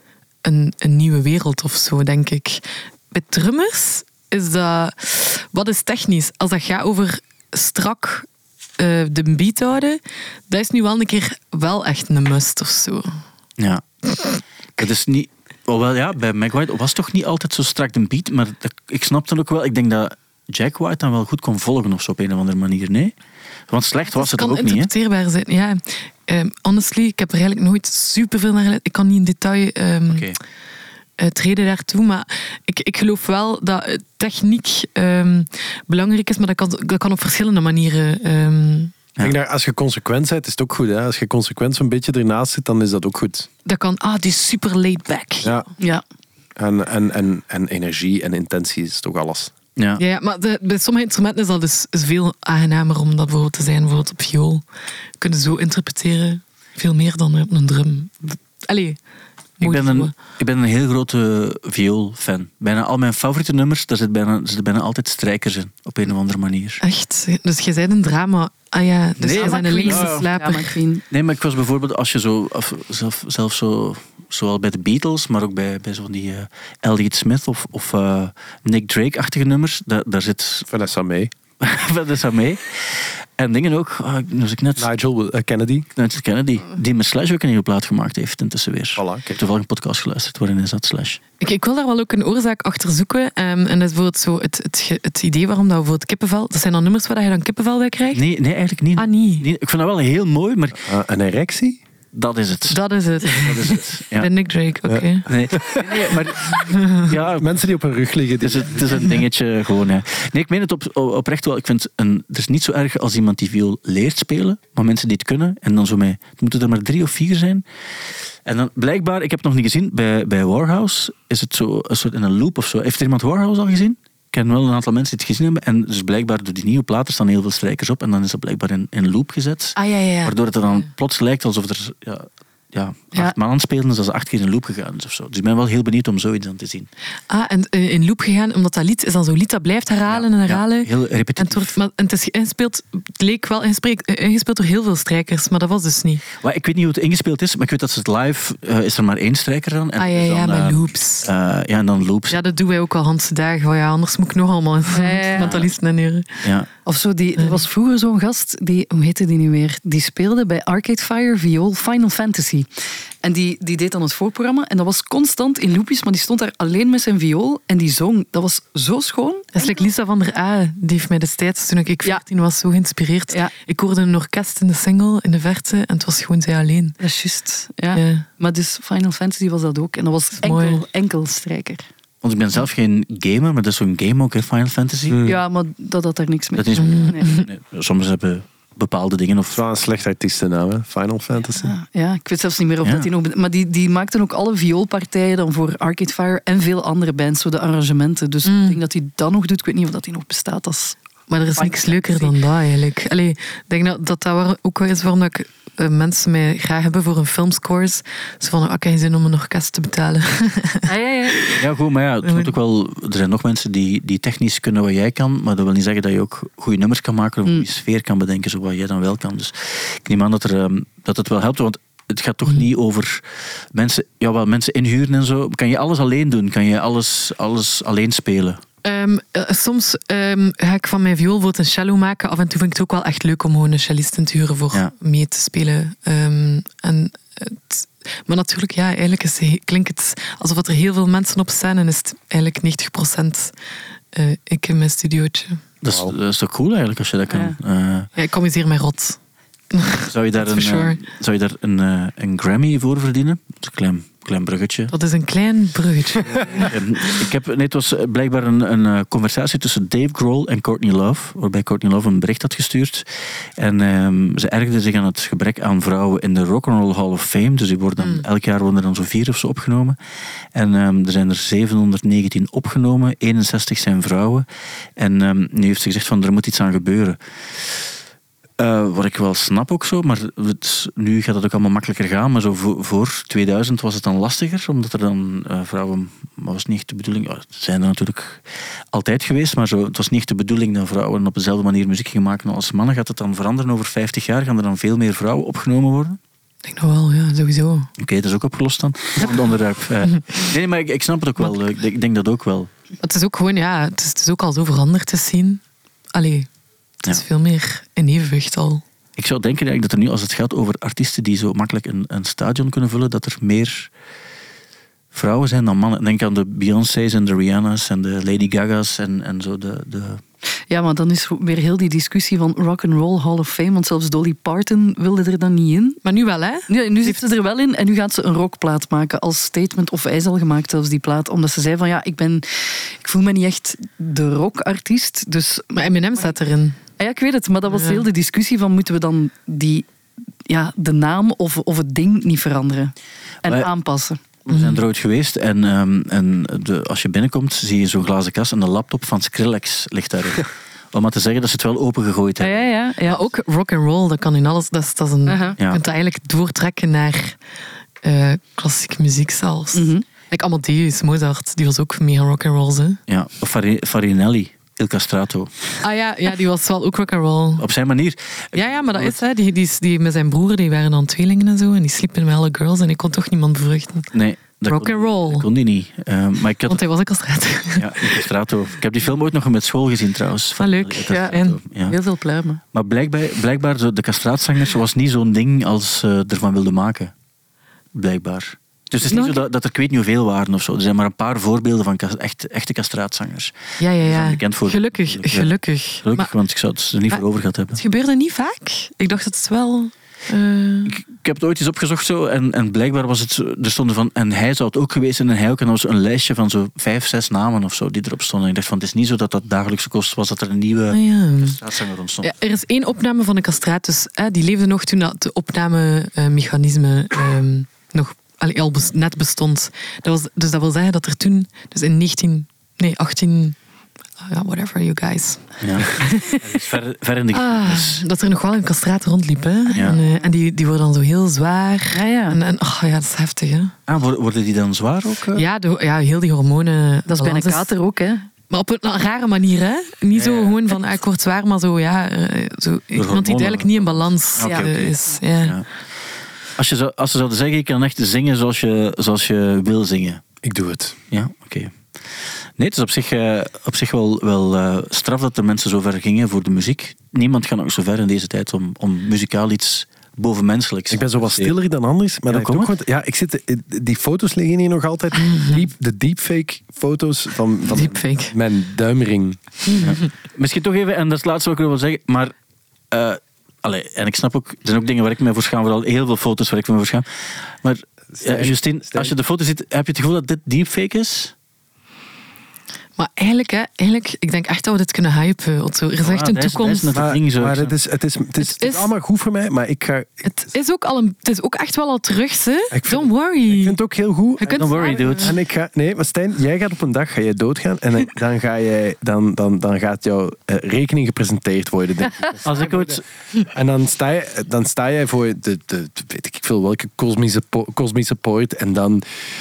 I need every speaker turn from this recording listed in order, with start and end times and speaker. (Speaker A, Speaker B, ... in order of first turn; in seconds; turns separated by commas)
Speaker A: 0.4-8.3, Speaker A: 8.8-13.1, Speaker B: 13.6-13.8, Speaker B: 14.8-23.1, Speaker B: 23.7-24.9, Speaker A: 24.1-30.2, Speaker B: 30.1-30.4, Speaker A: 31.2-38.9, Speaker C: 39.2-43.5, Speaker A: 43.6-45.6, Speaker C: 46.6-49.5, Speaker A: 50.0-54.6, Speaker A: 55.2-59.0, Speaker A: 59.6-60.1, Speaker B: 59.6-66.8, Speaker A: 66.8-70.8, Speaker B: 69.2-70.3, Speaker D: 69.3-71.0, Speaker B: 71.1-80.7, Speaker C: 80.7-81.3, Speaker B: 81.6-82.7, Speaker B: 83.4-84.9, Speaker C: 84.8-85.9, Speaker B: 86.0-91.2, Speaker C: 89.0-89.4, Speaker A: 91.4-98.2, Speaker B: 98.1-100.9, Speaker A: 99.0-99.5, Speaker C: 100.8-101.8, Speaker B: 102.1-104.3, Speaker A: 102.7-105.3, Speaker C: 104.9-105.9, Speaker B: 105.3-107.5, Speaker A: 106.7-107.1, Speaker C: 107.4-109.1, Speaker B: 108.4-117.6, Speaker B: 118.5-136.9, Speaker A: 129.8-130.3, Speaker A: 137.3-146.2, Speaker B: 140.1-141.8, Speaker B: 146.4-152.4, Speaker A: 150.0-151.3, Speaker A: 152.3-156.3, Speaker D: 154.9-155.7, Speaker B: 155.4-155.6, Speaker B: 156.4-156.7, Speaker D: 156.8-162.7, Speaker D: 163.2-169.8, Speaker A: 169.6-177.0, Speaker D: 177.0-181.8, Speaker A: 177.9-178.3, Speaker A: 180.4-180.8, Speaker B: 182.2-185.2, Speaker C: 185.1-185.4, Speaker D: 185.2-187.4, Speaker B: 186.6-189.6, Speaker A: 186.8-187.4, Speaker C: 189.5-191.7, Speaker D: 191.6-201.0, Speaker B: 192.8-193.1, Speaker A: 198.4-198.8, Speaker A: 201.3-211.6, Speaker D: 201.6-202.3, Speaker D: 210.9-211.4, Speaker B: 211.6-223.2, Speaker B: 223.7-228.6, Speaker A: 228.8-243.5, Speaker A: 244.1-245.6, Speaker B: 245.8-248.1, Speaker C: 245.9-246.1, Speaker D: 247.3-247.6, Speaker A: 248.2-249.2, Speaker A: 249.7-251.0, Speaker B: 250.1-254.9, Speaker A: 254.9-256.7, Speaker B: 256.5-263.1, Speaker B: 263.6-270.0, Speaker A: 268.0-268.3, Speaker B: 270.5-274.4, Speaker B: 275.0-277.2, Speaker B: 278.6-296.2, Speaker A: 296.6-297.9, Speaker B: 298.0-302.7, Speaker A: 303.0-305.6, Speaker A: 306.1-306.5, Speaker A: 307.0-308.8, Speaker B: 309.2-313.9, Speaker B: 315.1-320.2, Speaker D: 320.7-326.0, Speaker A: 326.0-327.2, Speaker D: 326.7-335.9, Speaker A: 335.7-336.8, Speaker D: 337.0-339.9, Speaker A: 337.7-338.0, Speaker D: 340.5-344.2, Speaker B: 344.4-352.7, Speaker A: 344.5-344.8, Speaker D: 352.4-353.2, Speaker A: 353.1-357.4, Speaker D: 355.3-355.6, Speaker A: 358.0-363.0, Speaker D: 359.7-360.1, Speaker B: 363.1-365.8, Speaker A: 365.8-367.6, Speaker B: 367.6-369.2, Speaker A: 368.5-374.1, Speaker B: 374.1-376.8, Speaker A: 374.7-375.5, Speaker A: 376.7-378.2, Speaker B: 377.8-382.0, Speaker A: 380.6-381.6, Speaker D: 381.1-382.6, Speaker B: 382.7-387.1, Speaker B: 387.9-397.8, Speaker A: 389.1-389.4, Speaker A: 393.8-396.3, Speaker A: 397.8-401.0, Speaker B: 400.9-412.3, Speaker A: 410.9-411.6, Speaker A: 412.2-423.6, Speaker A: 424.2-426.4, Speaker B: 425.6-425.9, Speaker B: 426.4-428.0, Speaker A: 427.3-433.8, Speaker D: 429.8-430.2, Speaker D: 431.9-432.4, Speaker B: 433.9-435.4, Speaker A: 435.4-437.7, Speaker D: 437.1-438.3, Speaker A: 438.5-445.6, Speaker B: 440.1-440.6, Speaker B: 442.9-445.7, Speaker D: 444.4-444.7, Speaker B: 446.6-450.2, Speaker C: 450.4-451.0, Speaker B: 451.1-451.8, Speaker B: 452.6-461.5, Speaker C: 460.9-469.4, Speaker B: 462.3-462.7, Speaker A: 465.2-465.6, Speaker A: 467.7-468.4, Speaker A: 469.7-470.1, Speaker B: 469.8-472.3, Speaker B: 472.9-477.1, Speaker B: 477.6-481.3, Speaker C: 478.1-479.1, Speaker A: 483.0-487.0, Speaker B: 486.0-487.7, Speaker C: 486.9-490.5, Speaker A: 488.4-488.9, Speaker A: 490.2-493.8, Speaker C: 492.7-509.0, Speaker A: 494.4-495.3, Speaker B: 494.5-495.4, Speaker B: 502.4-503.0